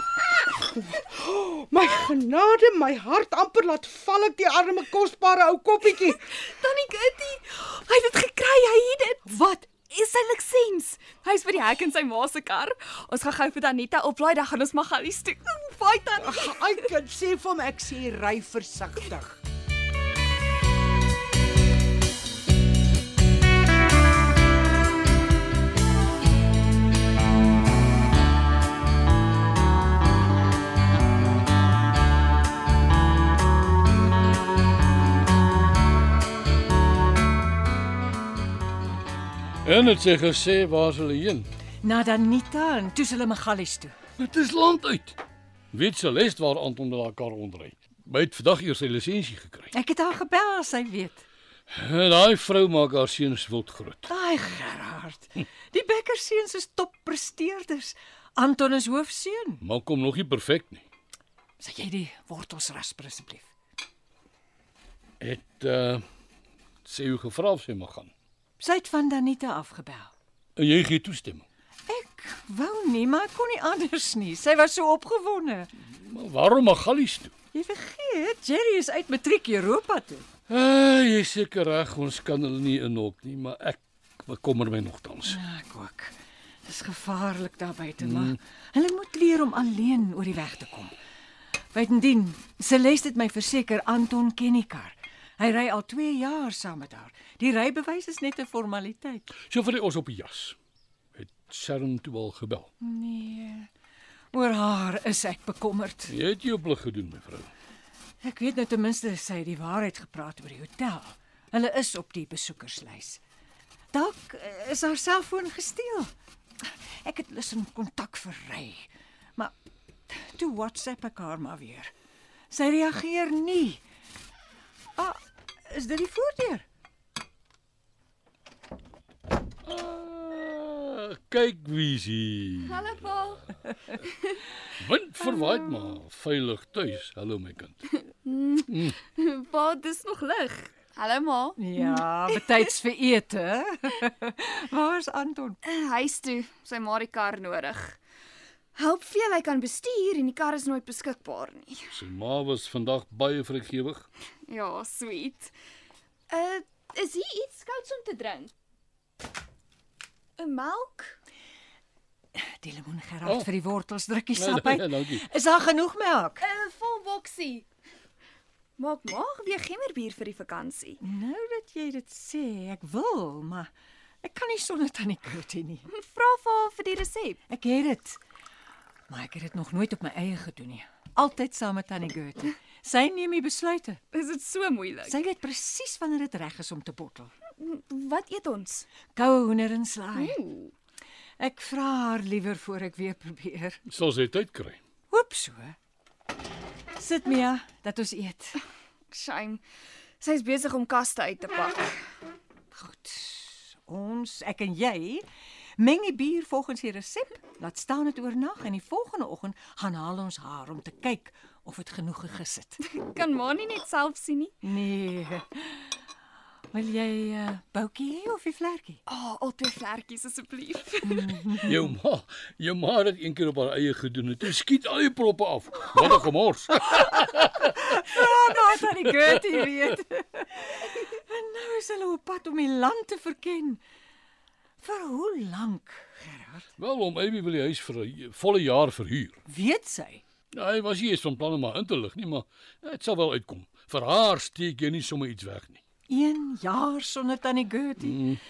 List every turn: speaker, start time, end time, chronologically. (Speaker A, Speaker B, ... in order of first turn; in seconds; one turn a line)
Speaker A: 0.4-6.2
Speaker B: 6.0-16.8
Speaker A: 16.2-19.4
Speaker C: 39.6-41.5
Speaker D: 41.8-44.0
Speaker C: 44.2-45.2
Speaker C: 45.7-49.7
Speaker D: 49.7-51.2
Speaker C: 51.7-54.0
Speaker D: 54.1-59.6
Speaker C: 59.6-60.8
Speaker D: 61.6-63.4
Speaker C: 65.2-66.0
Speaker C: 66.8-68.1
Speaker D: 68.6-70.1
Speaker C: 70.6-71.4
Speaker D: 71.9-75.7
Speaker C: 75.8-77.3
Speaker D: 77.5-80.2
Speaker C: 80.5-85.4
Speaker D: 85.3-86.1
Speaker D: 86.7-90.9
Speaker C: 88.0-88.4
Speaker D: 91.7-99.3
Speaker C: 99.4-100.5
Speaker C: 101.1-102.7
Speaker D: 102.8-103.7
Speaker D: 104.3-106.1
Speaker C: 106.1-107.5
Speaker D: 108.2-113.2
Speaker D: 113.9-116.1
Speaker D: 117.0-119.5
Speaker D: 120.1-121.9
Speaker D: 122.5-123.8
Speaker D: 125.0-126.6
Speaker C: 129.6-132.9
Speaker B: 132.7-134.3
Speaker C: 134.8-137.8
Speaker B: 138.2-142.0
Speaker C: 138.7-138.9
Speaker D: 141.6-145.6
Speaker B: 145.6-148.0
Speaker B: 148.8-151.9
Speaker C: 151.9-154.1
Speaker B: 154.5-155.5
Speaker B: 156.3-158.5
Speaker B: 160.4-161.2
Speaker D: 162.4-166.4
Speaker C: 164.3-165.2
Speaker B: 166.4-167.6
Speaker B: 168.8-171.0
Speaker D: 171.0-173.7
Speaker D: 174.2-175.9
Speaker B: 175.9-177.4
Speaker D: 177.5-178.2
Speaker D: 179.1-184.0
Speaker B: 184.1-185.1
Speaker D: 185.1-187.3
Speaker B: 187.6-188.9
Speaker D: 189.2-190.4
Speaker B: 190.2-190.7
Speaker D: 191.4-193.8
Speaker C: 193.9-194.8
Speaker D: 195.1-195.8
Speaker D: 197.0-198.6
Speaker B: 199.1-199.6
Speaker B: 200.2-202.0
Speaker D: 202.7-205.2
Speaker D: 205.8-212.8
Speaker B: 212.8-214.5
Speaker D: 214.6-215.8
Speaker D: 216.7-219.0
Speaker B: 219.1-221.3
Speaker D: 221.1-221.6
Speaker C: 221.6-229.4
Speaker D: 227.9-233.8
Speaker D: 234.8-236.7
Speaker C: 236.8-239.4
Speaker D: 239.5-240.2
Speaker C: 240.5-245.8
Speaker D: 246.1-248.1
Speaker C: 248.0-248.4